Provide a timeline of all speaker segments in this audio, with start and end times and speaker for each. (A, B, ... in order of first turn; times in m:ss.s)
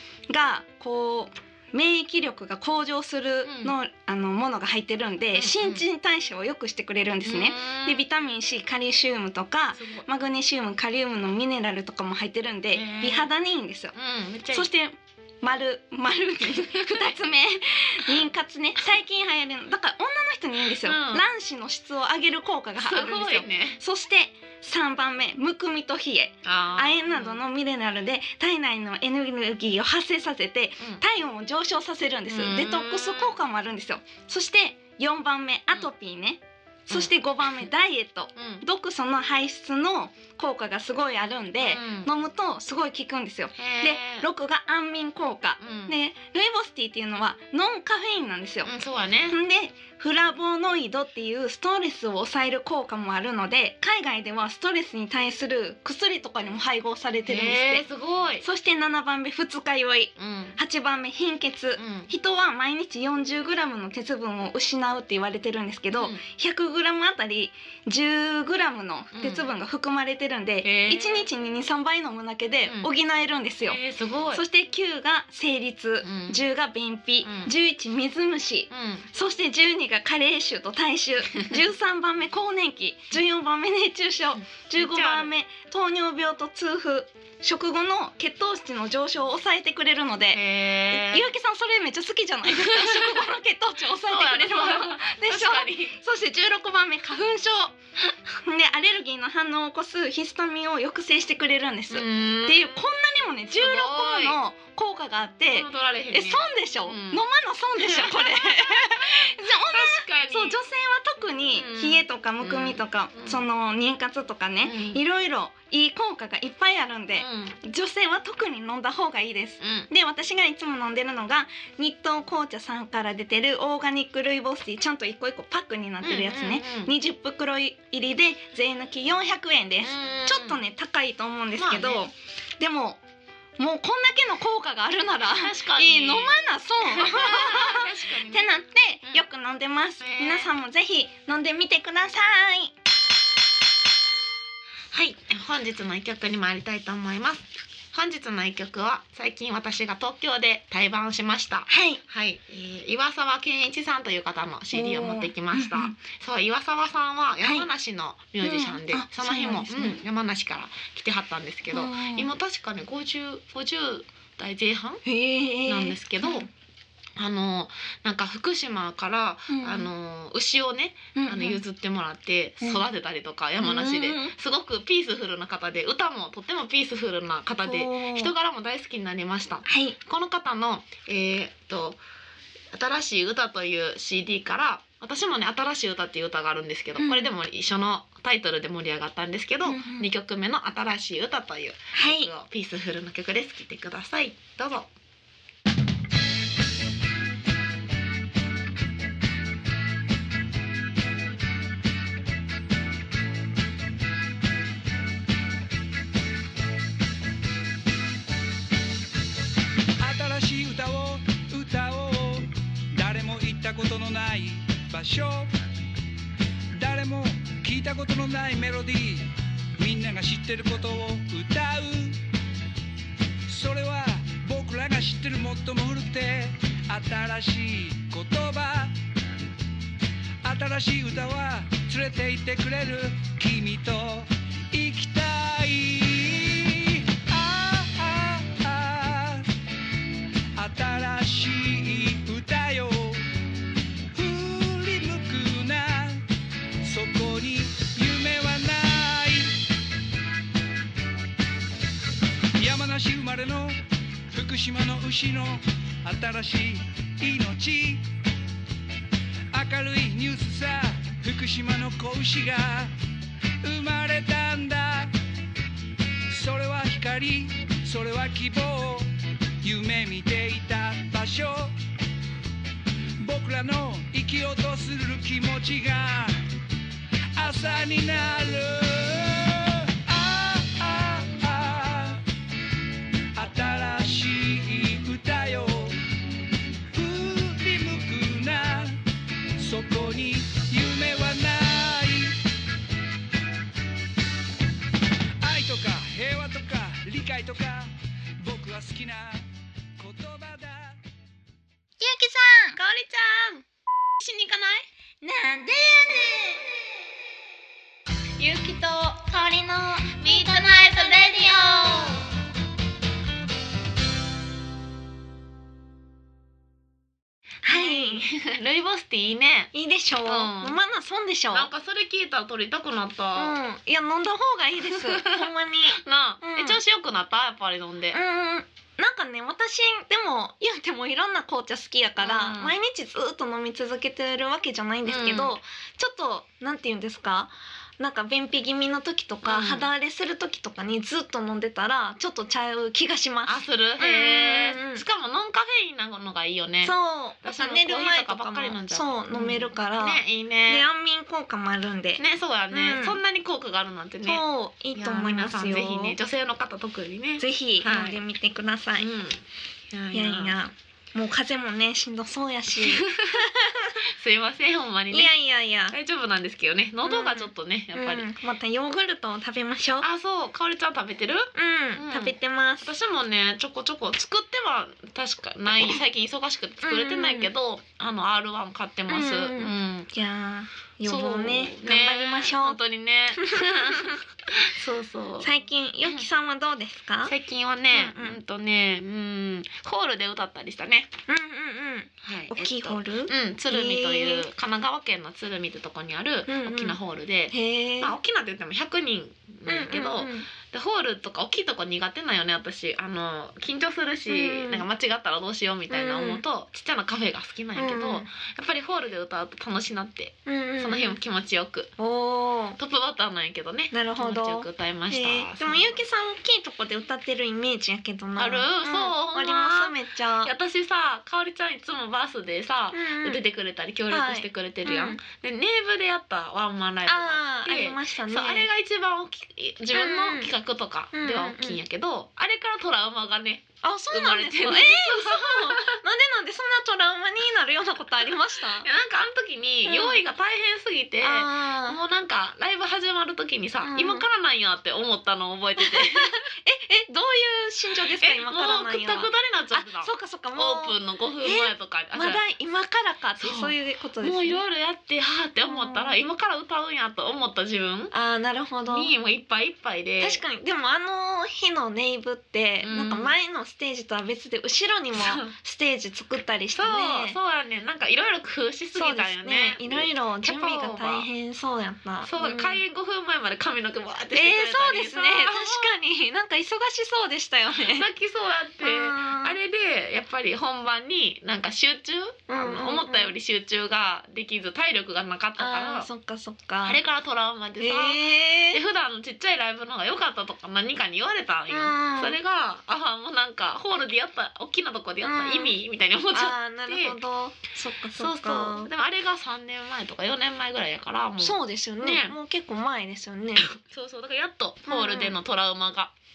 0:00.3-0:13.9 A
0:03.4-0:03.7 B
0:05.4-0:05.8 B
0:07.2-0:08.0 B
0:09.8-0:10.0 B
0:12.7-0:13.3 B
0:13.9-0:14.7 B
0:14.5-0:48.7 A
0:16.6-0:17.2 B
0:20.8-0:21.2 B
0:22.8-0:23.8 B
0:26.4-0:27.4 B
0:32.3-0:33.4 B
0:38.4-0:38.6 B
0:41.7-0:42.1 B
0:43.6-0:44.3 B
0:45.6-0:45.9 B
0:48.6-0:49.4 B
0:49.3-0:57.9 A
0:57.3-0:58.4 B
0:58.4-1:13.8 A
1:00.2-1:00.6 B
1:01.8-1:02.1 B
1:05.9-1:06.2 B
1:09.1-1:09.5 B
1:10.6-1:11.3 B
1:13.7-1:14.4 B
1:14.3-1:37.8 A
1:16.0-1:16.4 B
1:17.2-1:17.5 B
1:18.7-1:19.1 B
1:24.8-1:25.3 B
1:30.3-1:31.3 B
1:32.5-1:33.3 B
1:34.1-1:36.0 B
1:38.4-2:13.0 A
1:41.9-1:42.8 B
1:43.5-1:44.4 B
1:45.5-1:47.2 B
1:47.8-1:50.6 B
1:51.6-1:53.4 B
1:54.6-1:55.0 B
1:57.2-1:57.6 B
1:59.6-1:59.9 B
2:06.0-2:06.9 B
2:09.8-2:10.6 B
2:11.6-2:12.0 B
2:13.6-2:22.7 A
2:15.3-2:19.2 B
2:20.0-2:20.5 B
2:24.9-2:45.0 B
2:31.7-2:32.0 A
2:34.7-2:36.0 A
2:38.4-2:40.0 A
2:41.7-2:42.3 A
2:45.0-2:46.5 A
2:45.7-2:46.5 B
2:47.2-3:02.0 B
2:49.5-2:49.9 A
2:51.2-2:51.6 A
2:53.6-2:54.3 A
2:57.6-2:58.3 A
2:59.7-3:00.0 A
3:02.7-3:14.9 B
3:07.0-3:07.3 A
3:09.6-3:10.1 A
3:11.9-3:12.3 A
3:30.0-3:35.6 C
3:36.8-3:42.2 C
3:43.5-3:49.0 C
3:50.4-3:59.5 C
4:00.6-4:03.3 C
4:04.1-4:06.3 C
4:06.8-4:09.7 C
4:12.6-4:18.1 C
4:19.5-4:23.0 C
4:23.6-4:25.2 C
4:26.3-4:31.8 C
4:33.2-4:36.5 C
4:37.4-4:42.2 C
4:43.4-4:46.0 C
4:46.9-4:49.0 C
4:49.6-4:52.4 C
4:55.4-5:01.0 C
5:02.0-5:02.8 A
5:02.8-5:03.6 B
5:04.2-5:04.9 B
5:05.2-5:06.8 A
5:08.4-5:12.3 A
5:08.4-5:09.0 B
5:10.2-5:12.2 B
5:17.6-5:18.3 A
5:17.7-5:19.7 B
5:19.7-5:21.7 A
5:20.2-5:20.8 B
5:21.5-5:23.6 B
5:23.4-5:26.8 A
5:24.8-5:28.2 B
5:28.1-5:45.0 A
5:32.2-5:32.7 B
5:35.0-5:35.5 B
5:39.4-5:39.9 B
5:43.5-5:50.9 B
5:46.8-5:53.2 A
5:52.2-5:54.4 B
5:54.2-5:56.2 A
5:55.0-5:58.2 B
5:57.4-5:59.1 A
5:59.0-5:59.4 B
5:59.9-6:00.6 B
6:00.1-6:04.0 A
6:02.8-6:03.5 B
6:04.1-6:05.3 B
6:05.1-6:06.0 A
6:05.9-6:08.3 B
6:07.0-6:10.1 A
6:10.0-6:20.1 B
6:11.6-6:12.9 A
6:16.8-6:17.5 A
6:19.1-6:22.8 A
6:21.1-6:26.2 B
6:23.4-6:24.2 A
6:25.4-6:27.3 A
6:27.3-6:31.1 B
6:27.9-6:28.4 A
6:31.3-6:34.5 A
6:32.2-6:51.9 B
6:36.5-6:37.0 A
6:37.5-6:38.2 A
6:39.7-6:40.5 A
6:44.3-6:44.8 A
6:45.9-6:46.4 A
6:47.8-6:48.3 A
6:50.5-6:51.2 A
6:52.0-6:52.8 A
6:52.8-6:56.0 B
6:53.9-7:00.5 A
6:58.4-7:16.0 B
7:02.9-7:03.4 A
7:04.1-7:05.2 A
7:07.1-7:08.7 A
7:09.9-7:10.5 A
7:11.1-7:11.8 A
7:13.8-7:18.9 A
7:18.8-7:26.4 B
7:19.8-7:20.2 A
7:21.2-7:22.0 A
7:23.8-7:24.2 A
7:25.8-7:34.6 A
7:28.2-7:32.4 B
7:33.4-7:38.1 B
7:35.6-7:36.2 A
7:38.1-7:39.1 A
7:38.9-7:40.4 B
7:40.2-7:47.4 A
7:42.8-7:43.3 B
7:45.2-7:45.5 B
7:46.8-7:51.3 B
7:48.9-7:52.8 A
7:52.2-7:55.9 B
7:54.3-7:58.1 A
7:57.8-8:06.1 B
7:58.8-7:59.6 A
8:02.5-8:03.3 A
8:05.6-8:07.0 A
8:06.8-8:17.2 B
8:07.8-8:08.8 A
8:11.7-8:12.4 A
8:15.2-8:15.8 A
8:16.3-8:18.9 A
8:18.2-8:22.4 B
8:21.4-8:23.7 A
8:23.6-8:26.1 B
8:24.9-8:25.3 A